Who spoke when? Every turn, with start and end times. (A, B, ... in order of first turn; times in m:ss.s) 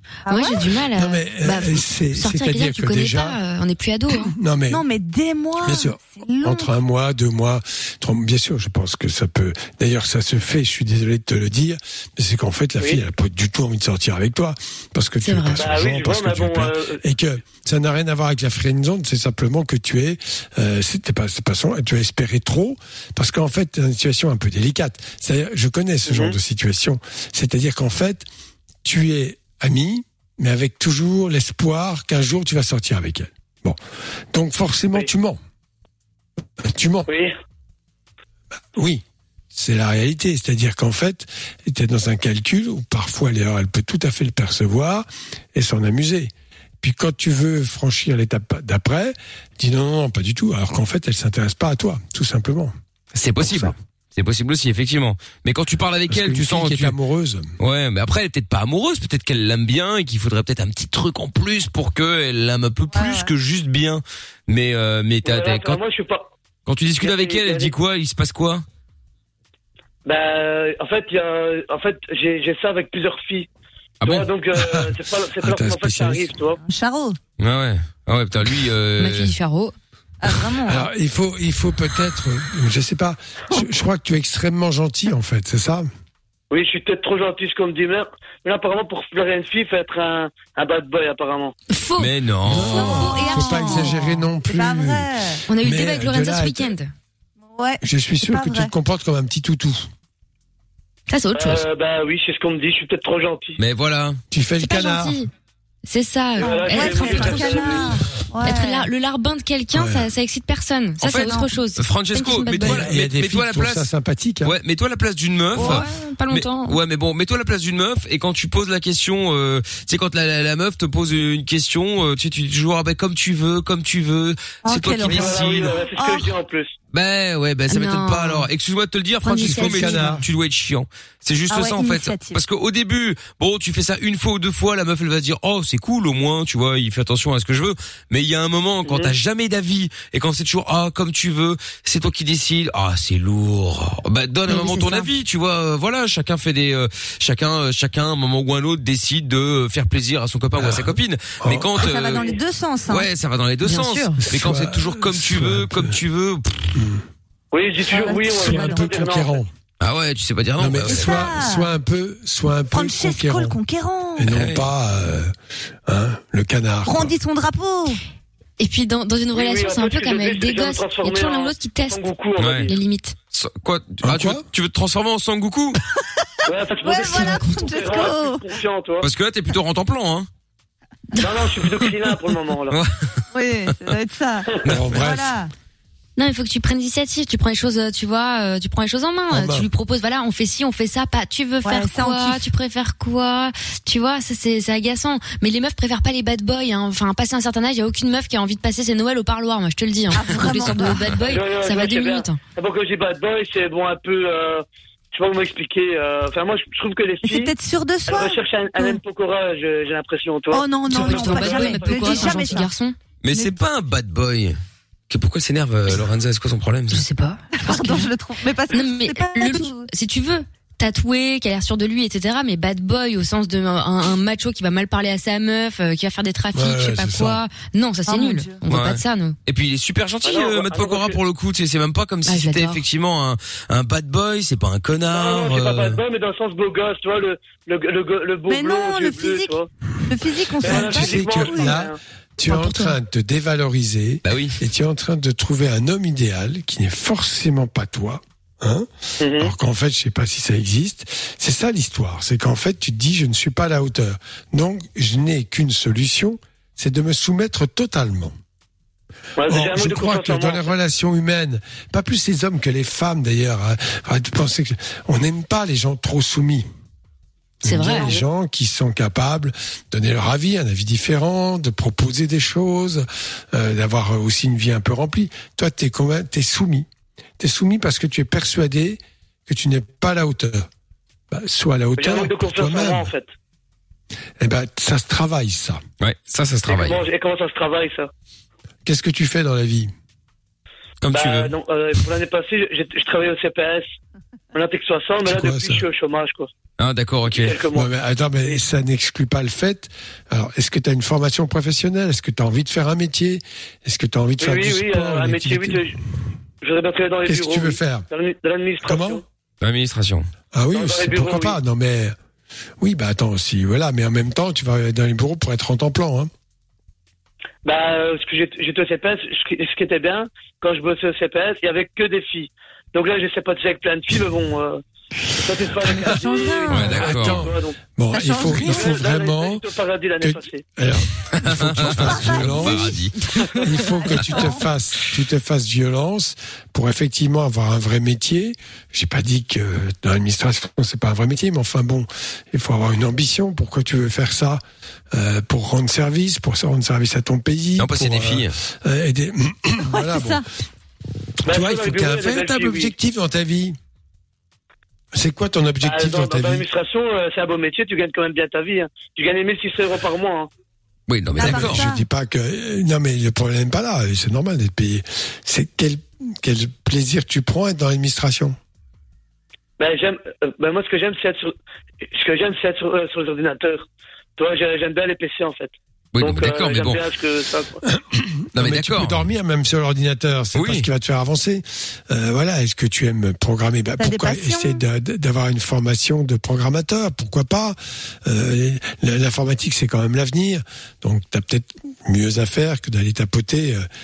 0:00.3-0:00.7 A
0:00.3-0:04.3 B
0:00.9-0:03.4 C
0:04.2-0:04.8 C
0:04.7-0:06.7 A
0:05.6-0:28.3 C
0:15.2-0:15.7 B
0:15.6-0:17.0 D
0:26.1-0:26.4 D
0:28.8-0:33.8 C
0:34.3-0:35.4 C
0:36.6-0:37.1 C
0:37.1-0:37.3 D
0:38.7-0:52.7 C
0:53.2-0:57.0 E
0:53.4-0:53.7 C
0:56.1-0:57.5 C
0:57.6-1:05.8 E
1:02.9-1:03.3 A
1:05.2-1:06.3 D
1:06.7-1:08.6 E
1:07.0-1:07.7 D
1:10.0-1:13.5 D
1:14.0-1:14.3 E
1:14.0-1:16.6 D
1:14.6-1:16.4 C
1:16.6-1:17.2 A
1:17.4-1:19.3 E
1:19.0-1:19.7 B
1:20.2-1:20.9 A
1:20.6-1:25.9 C
1:26.5-1:31.5 D
1:31.7-1:33.9 B
1:32.0-1:33.0 E
1:32.4-1:36.7 C
1:32.6-1:35.4 A
1:35.5-1:36.9 B
1:37.5-1:38.7 A
1:37.8-1:39.9 C
1:41.1-1:41.6 B
1:41.4-1:43.6 D
1:43.6-1:44.2 E
1:44.3-1:45.2 C
1:44.6-1:45.3 B
1:45.8-1:52.9 B
1:46.4-1:48.9 A
1:46.4-1:47.9 D
1:49.7-1:50.1 C
1:51.0-1:53.9 E
1:52.6-1:54.6 C
1:54.4-2:05.8 E
1:55.6-1:55.9 A
1:55.6-1:56.8 B
2:04.6-2:06.4 A
2:05.1-2:06.7 D
2:06.9-2:32.3 E
2:07.7-2:08.5 B
2:09.2-2:10.1 B
2:09.4-2:10.2 C
2:11.5-2:12.4 A
2:18.8-2:19.1 D
2:24.5-2:25.1 B
2:30.6-2:31.7 C
2:31.8-2:33.1 A
2:32.9-2:36.8 E
2:33.6-2:34.1 B
2:34.2-2:36.0 C
2:36.8-2:37.0 C
2:37.5-2:39.4 D
2:37.9-2:39.2 A
2:38.3-2:39.5 C
2:39.8-2:41.3 E
2:40.6-2:43.6 C
2:40.9-2:41.7 A
2:42.7-2:44.3 A
2:44.2-2:45.3 C
2:44.3-2:44.7 E
2:45.8-2:47.2 C
2:46.8-2:48.0 A
2:48.6-2:52.1 B
2:49.3-2:52.7 D
2:52.4-2:52.7 E
2:52.7-2:53.2 B
2:53.3-2:55.8 E
2:54.0-2:54.4 C
2:56.5-2:59.1 D
2:56.8-2:58.5 A
2:59.0-3:00.3 E
3:01.2-3:02.8 D
3:02.7-3:03.2 E
3:03.3-3:05.5 A
3:04.7-3:05.0 E
3:04.7-3:05.3 C
3:06.2-3:22.4 B
3:09.3-3:09.7 C
3:11.6-3:12.5 A
3:20.1-3:21.0 A
3:21.3-3:27.5 D
3:27.2-3:29.0 A
3:28.1-3:32.6 D
3:30.5-3:32.7 A
3:30.9-3:33.0 B
3:33.2-3:34.6 E
3:35.1-3:37.0 E
3:36.9-3:38.1 B
3:37.6-3:39.9 A
3:38.7-3:49.4 B
3:46.5-3:47.4 C
3:48.1-3:48.6 A
3:48.7-3:56.0 E
3:50.2-3:51.2 D
3:52.3-3:52.8 B
3:55.1-3:59.7 D
3:58.5-4:01.9 A
4:00.6-4:02.0 D
4:00.6-4:18.4 C
4:02.5-4:02.8 A
4:04.2-4:04.6 E
4:09.2-4:09.5 D
4:19.4-4:20.7 D
4:19.5-4:26.7 C
4:27.6-4:36.9 C
4:27.6-4:28.2 B
4:37.4-4:40.7 C
4:41.3-4:43.1 C
4:42.0-4:43.3 D
4:44.4-4:45.8 C
4:46.0-4:47.0 E
4:46.7-4:48.1 D
4:48.8-4:49.9 C
4:51.0-4:51.5 E
4:51.1-4:53.9 D
4:54.5-4:56.5 D
4:55.2-4:55.8 C
4:56.8-4:57.6 E
4:57.3-4:57.9 D
4:57.7-5:05.9 C
5:04.4-5:06.0 D
5:06.6-5:09.2 D
5:07.3-5:08.1 C
5:08.8-5:09.2 C
5:09.6-5:10.3 E
5:10.5-5:12.2 C
5:10.7-5:11.6 D
5:12.8-5:16.3 C
5:17.6-5:24.8 D
5:25.4-5:27.8 D
5:25.5-5:29.6 C
5:26.0-5:27.1 A
5:26.7-5:27.5 E
5:28.1-5:29.0 A
5:28.5-5:30.6 D
5:30.2-5:33.0 C
5:31.3-5:33.3 E
5:32.0-5:33.0 A
5:33.6-5:50.4 C
5:33.8-5:34.7 A
5:47.8-5:48.5 E
5:49.9-5:50.4 A
5:51.4-5:53.8 C
5:51.5-5:52.9 D
5:55.1-5:56.7 C
5:55.8-6:00.5 D
6:01.1-6:01.8 E
6:01.4-6:02.0 A
6:01.4-6:08.6 C
6:09.8-6:11.5 D
6:12.0-6:17.8 D
6:16.1-6:17.1 E
6:17.9-6:33.9 C
6:18.6-6:19.3 E
6:20.6-6:20.9 E
6:24.0-6:24.8 A